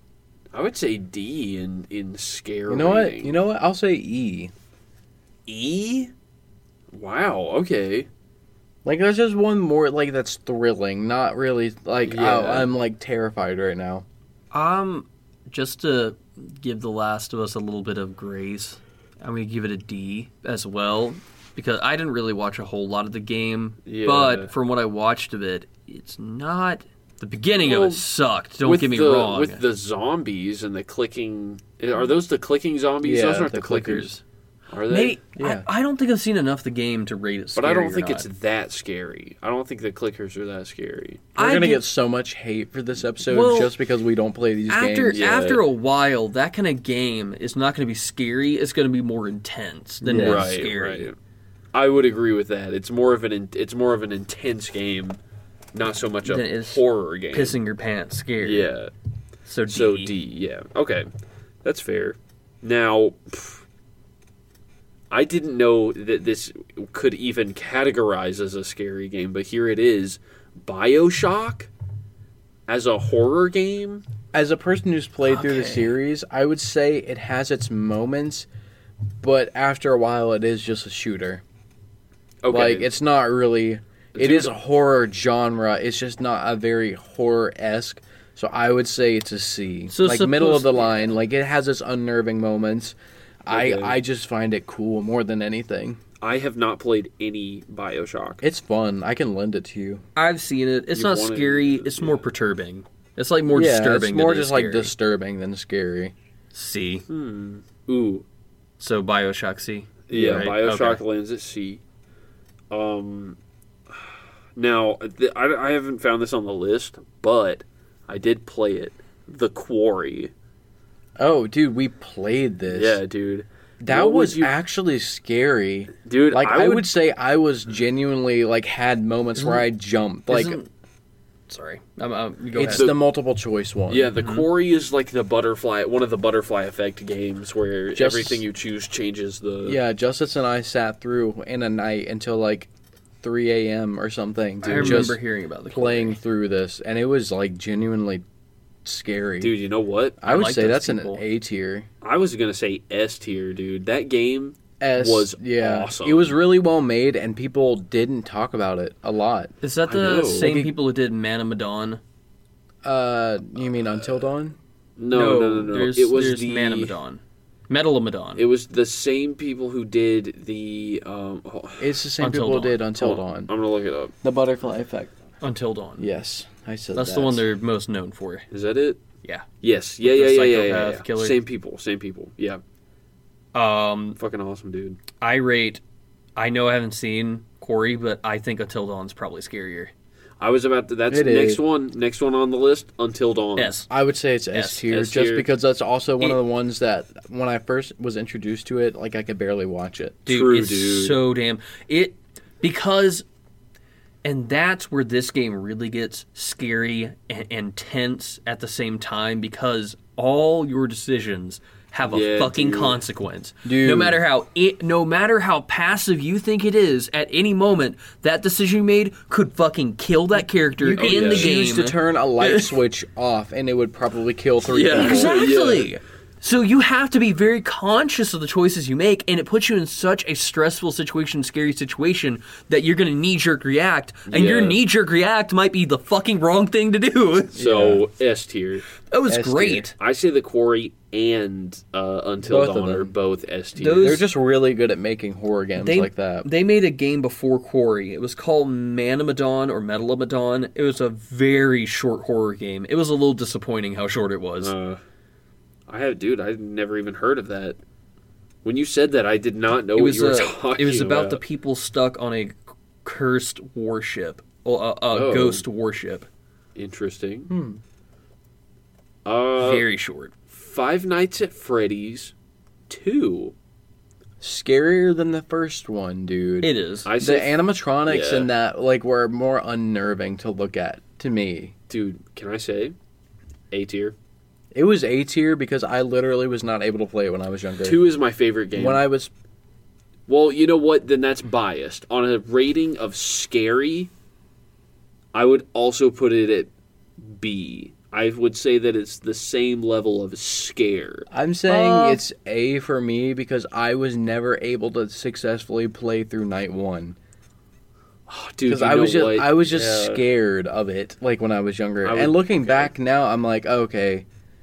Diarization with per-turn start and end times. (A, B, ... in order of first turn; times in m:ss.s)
0:00.5-0:03.4 A
0:02.7-0:04.5 B
0:05.5-0:06.1 A
0:06.9-0:08.1 A
0:08.8-0:14.0 B
0:12.0-0:12.7 A
0:14.5-0:29.6 C
0:23.9-0:24.5 A
0:27.6-0:28.1 A
0:28.6-0:34.1 A
0:33.0-0:34.1 B
0:33.9-0:34.2 C
0:34.7-0:35.2 A
0:34.9-0:38.3 C
0:35.4-0:35.7 B
0:37.6-0:41.3 A
0:41.4-0:41.8 C
0:41.4-0:45.2 B
0:43.3-0:43.8 C
0:44.7-0:51.1 C
0:45.1-0:45.6 A
0:50.0-0:50.5 B
0:50.1-0:51.2 A
0:51.7-0:55.2 A
0:55.7-0:57.6 A
0:56.2-0:58.7 C
0:58.4-0:58.9 A
0:59.4-1:00.1 C
0:59.7-1:01.1 A
1:01.6-1:03.6 A
1:05.1-1:11.7 A
1:12.7-1:14.0 A
1:14.3-1:18.5 B
1:15.2-1:16.0 C
1:19.2-1:21.4 B
1:22.4-1:22.9 A
1:22.5-1:36.0 B
1:24.1-1:24.5 A
1:29.9-1:30.9 C
1:33.5-1:34.0 A
1:36.2-1:38.4 A
1:38.4-1:40.0 B
1:40.2-1:44.9 C
1:40.9-1:42.3 A
1:43.5-1:46.1 B
1:46.5-1:47.0 C
1:47.1-1:48.2 A
1:48.8-1:51.0 C
1:50.1-1:51.8 A
1:50.1-1:50.5 B
1:52.7-1:53.4 A
1:54.0-2:00.3 A
2:01.2-2:03.0 B
2:02.7-2:04.6 A
2:03.8-2:10.6 B
2:06.0-2:06.9 A
2:10.3-2:10.7 C
2:11.5-2:12.9 C
2:12.5-2:14.1 B
2:12.7-2:13.0 A
2:13.9-2:19.8 A
2:14.2-2:14.5 C
2:17.9-2:18.4 B
2:19.7-2:22.7 B
2:23.2-2:25.2 B
2:24.6-2:25.1 A
2:24.6-2:26.2 C
2:25.7-2:28.2 B
2:28.8-2:29.6 B
2:29.4-2:30.2 A
2:30.2-2:31.9 B
2:30.2-2:31.2 C
2:32.0-2:36.4 A
2:34.8-2:39.5 B
2:39.6-2:42.0 C
2:39.9-2:40.6 A
2:40.4-2:40.7 B
2:42.8-2:44.6 B
2:43.8-2:44.2 A
2:45.0-2:46.9 A
2:45.1-2:48.4 C
2:48.4-2:52.0 A
2:51.8-2:53.5 B
2:52.2-2:52.8 C
2:53.0-2:54.1 A
2:54.2-2:55.1 B
2:55.4-2:56.0 C
2:56.0-2:57.4 B
2:57.0-2:58.5 C
2:58.5-2:59.0 A
2:59.6-3:02.6 A
3:00.0-3:01.4 C
3:03.5-3:04.2 C
3:04.2-3:05.0 A
3:05.2-3:05.8 C
3:06.4-3:09.9 C
3:10.4-3:13.7 A
3:11.1-3:11.6 B
3:13.6-3:13.9 C
3:13.9-3:20.2 B
3:14.5-3:14.8 C
3:14.9-3:15.5 A
3:20.3-3:23.2 C
3:20.3-3:21.2 A
3:24.2-3:42.7 C
3:32.1-3:33.0 A
3:33.6-3:34.2 B
3:40.8-3:45.4 B
3:41.0-3:41.5 A
3:44.6-3:45.9 A
3:44.9-3:57.6 C
3:54.3-3:54.8 A
3:57.6-3:58.8 A
3:57.6-3:58.0 B
3:59.0-3:59.9 C
3:59.3-3:59.9 B
4:00.0-4:04.2 A
4:02.4-4:03.1 B
4:03.8-4:04.3 C
4:04.0-4:06.5 B
4:05.8-4:14.7 C
4:14.6-4:15.0 A
4:15.9-4:17.8 A
4:18.6-4:21.4 A
4:20.0-4:26.3 C
4:25.1-4:25.6 A
4:26.8-4:27.5 A
4:27.5-4:27.8 B
4:29.2-4:29.9 A
4:29.6-4:30.3 C
4:30.5-4:32.3 A
4:32.9-4:33.5 A
4:34.4-4:41.7 B
4:36.6-4:37.1 C
4:37.0-4:38.5 A
4:41.9-4:43.0 A
4:43.7-4:44.1 A
4:44.7-4:48.0 B
4:47.8-4:49.0 A
4:48.7-4:49.3 B
4:50.3-4:54.1 A
4:55.3-5:01.3 A
5:01.3-5:07.2 B
5:01.7-5:02.2 C
5:08.3-5:10.2 A
5:08.6-5:14.3 B
5:12.0-5:12.9 A